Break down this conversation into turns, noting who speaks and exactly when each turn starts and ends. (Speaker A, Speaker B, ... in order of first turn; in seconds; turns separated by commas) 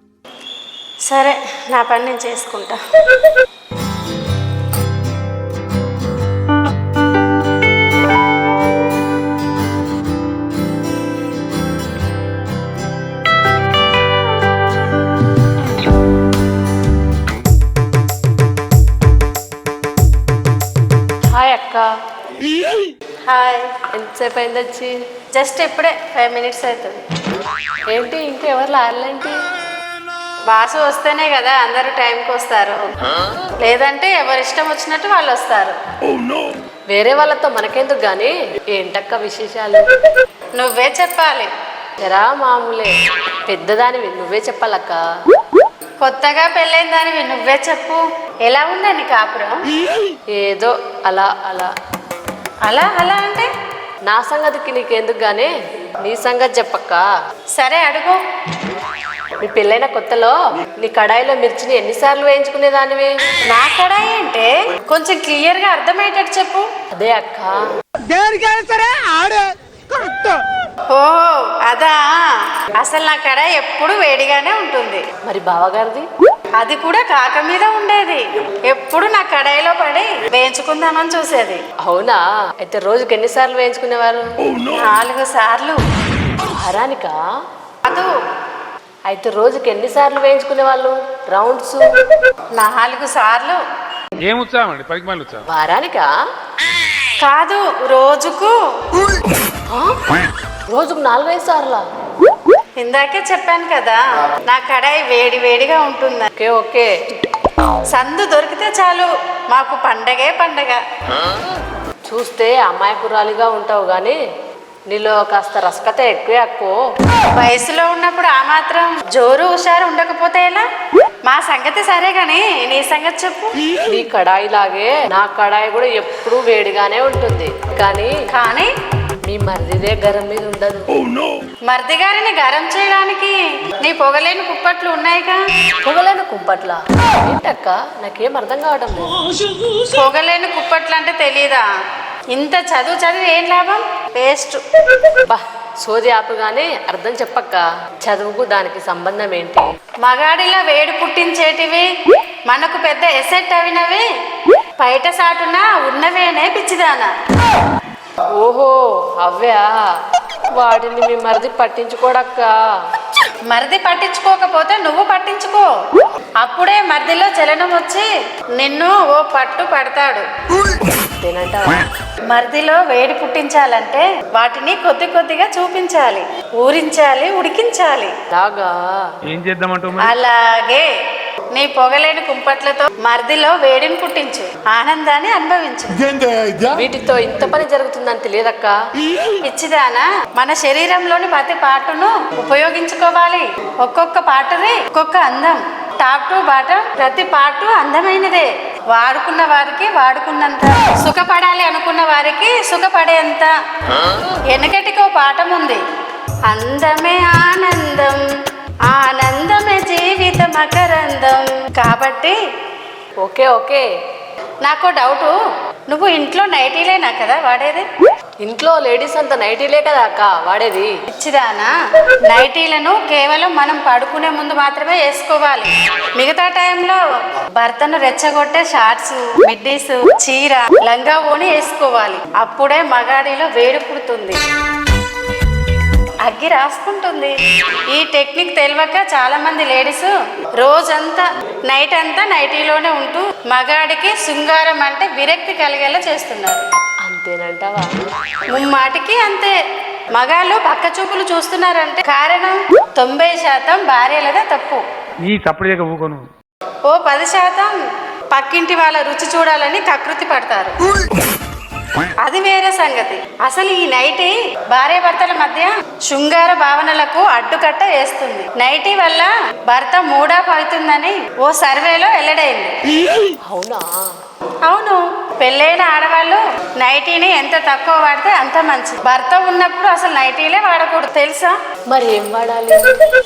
Speaker A: 1.1-2.8, Speaker B: 21.3-21.9, Speaker A: 23.2-23.7, Speaker B: 23.9-24.9, Speaker A: 25.4-27.0, Speaker B: 27.9-29.4, Speaker A: 30.5-33.0, Speaker A: 33.6-35.8, Speaker C: 36.1-36.4, Speaker B: 36.9-39.9, Speaker A: 40.6-41.5, Speaker B: 42.0-42.9, Speaker B: 43.5-45.0, Speaker A: 46.0-49.6, Speaker B: 50.3-51.7, Speaker A: 52.6-53.5, Speaker B: 54.1-57.1, Speaker A: 57.5-58.2, Speaker B: 59.4-63.1, Speaker A: 63.5-66.7, Speaker B: 66.9-67.6, Speaker D: 68.1-69.5, Speaker D: 70.0-70.3, Speaker A: 70.9-75.0, Speaker B: 75.2-76.1, Speaker A: 76.6-81.6, Speaker B: 81.8-84.3, Speaker A: 84.7-85.8, Speaker B: 86.5-87.2, Speaker A: 87.8-88.1, Speaker B: 89.1-91.8, Speaker A: 92.5-93.6, Speaker C: 94.2-95.5, Speaker B: 95.5-96.1, Speaker A: 97.2-98.5, Speaker B: 99.7-100.0, Speaker B: 100.7-101.8, Speaker A: 102.8-106.3, Speaker B: 106.4-106.9, Speaker A: 107.9-110.8, Speaker B: 112.1-114.2, Speaker B: 114.9-116.8, Speaker A: 117.3-120.7, Speaker A: 121.2-123.6, Speaker B: 123.8-128.1, Speaker A: 128.3-128.7, Speaker B: 129.3-130.8, Speaker A: 131.7-135.4, Speaker B: 135.8-139.3, Speaker A: 139.7-141.7, Speaker A: 142.3-144.6, Speaker B: 145.3-149.7, Speaker A: 150.0-151.9, Speaker A: 152.5-154.1, Speaker A: 154.8-157.1, Speaker B: 158.4-159.7, Speaker B: 160.2-162.5, Speaker A: 163.5-165.7, Speaker A: 166.4-170.3, Speaker B: 171.1-171.9, Speaker A: 172.3-178.2, Speaker B: 178.3-178.9, Speaker C: 179.3-180.2, Speaker A: 180.0-180.9, Speaker A: 181.5-186.2, Speaker D: 186.2-186.7, Speaker B: 186.7-188.8, Speaker A: 189.4-203.5, Speaker A: 204.5-205.8, Speaker A: 206.5-208.2, Speaker A: 208.9-212.4, Speaker B: 213.2-213.8, Speaker A: 214.6-215.4, Speaker A: 215.9-217.9, Speaker B: 218.4-220.9, Speaker A: 221.1-221.7, Speaker A: 222.2-227.0, Speaker A: 227.6-234.4, Speaker A: 236.2-237.3, Speaker A: 237.9-246.7, Speaker B: 247.0-247.9, Speaker A: 248.5-249.6, Speaker A: 250.1-254.8, Speaker C: 255.2-256.3, Speaker A: 256.9-257.8, Speaker A: 258.3-260.8, Speaker A: 262.2-272.7, Speaker B: 273.5-274.1, Speaker A: 274.6-281.6, Speaker B: 281.9-282.9